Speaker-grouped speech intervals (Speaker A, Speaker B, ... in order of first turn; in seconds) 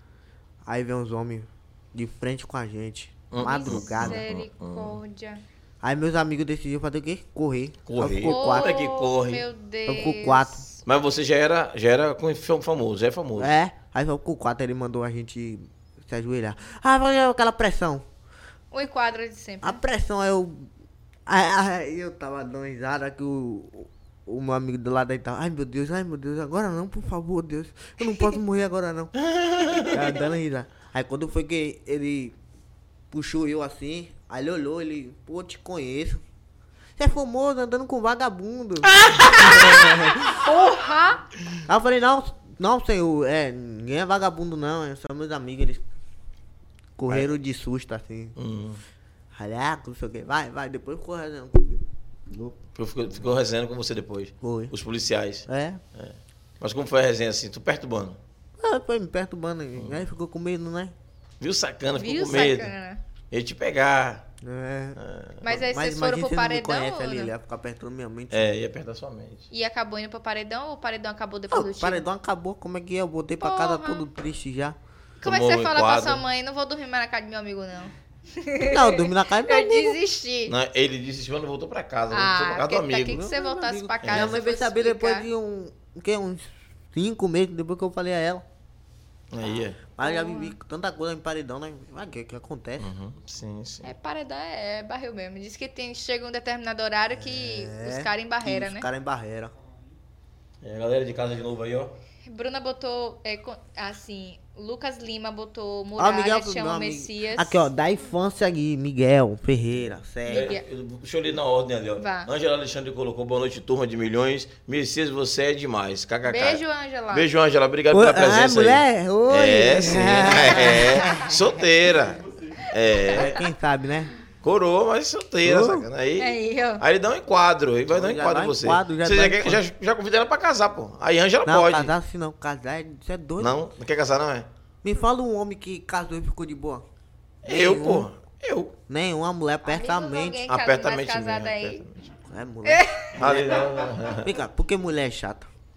Speaker A: 0.7-4.2, 5.8-8.8, 9.9-10.6, 13.4-18.1, 19.6-20.7, 21.3-29.1, 29.8-32.4, 33.1-36.2, 37.0-40.6, 41.7-45.9, 47.0-48.4, 49.3-52.6, 54.4-54.7, 55.5-55.8, 58.6-60.9, 64.4-68.5, 71.5-74.8, 78.6-80.0, 83.1-88.4, 89.8-92.9, 97.1-99.5, 106.0-110.5, 117.9-121.5, 123.1-124.1, 125.5-125.9, 127.9-129.6, 131.4-133.6, 134.8-136.8, 137.4-138.1, 138.9-140.5, 142.2-145.5
Speaker B: 3.3-5.0, 7.9-9.4, 10.8-13.5, 29.2-30.0, 38.9-40.0, 48.4-48.8, 52.8-58.2, 59.8-60.1, 61.4-62.7, 63.3-64.2, 65.0-65.4, 68.3-69.5, 75.2-76.2, 80.5-83.2, 84.0-84.3, 89.3-89.8, 92.8-93.9, 100.6-101.9, 110.3-123.4, 124.4-131.9, 133.4-134.5, 137.4-138.7, 140.5-142.1, 143.2-144.3
Speaker C: 3.4-5.4, 8.3-10.8, 18.7-19.8, 40.3-41.2, 62.0-63.0, 65.4-67.3, 69.5-72.0, 73.4-74.1, 75.2-80.5, 82.1-85.3, 90.0-90.5, 93.8-98.9, 102.3-107.7, 110.3-110.6, 112.0-112.3, 116.3-117.3, 122.8-123.3, 126.2-126.8, 139.7-141.8, 142.7-143.2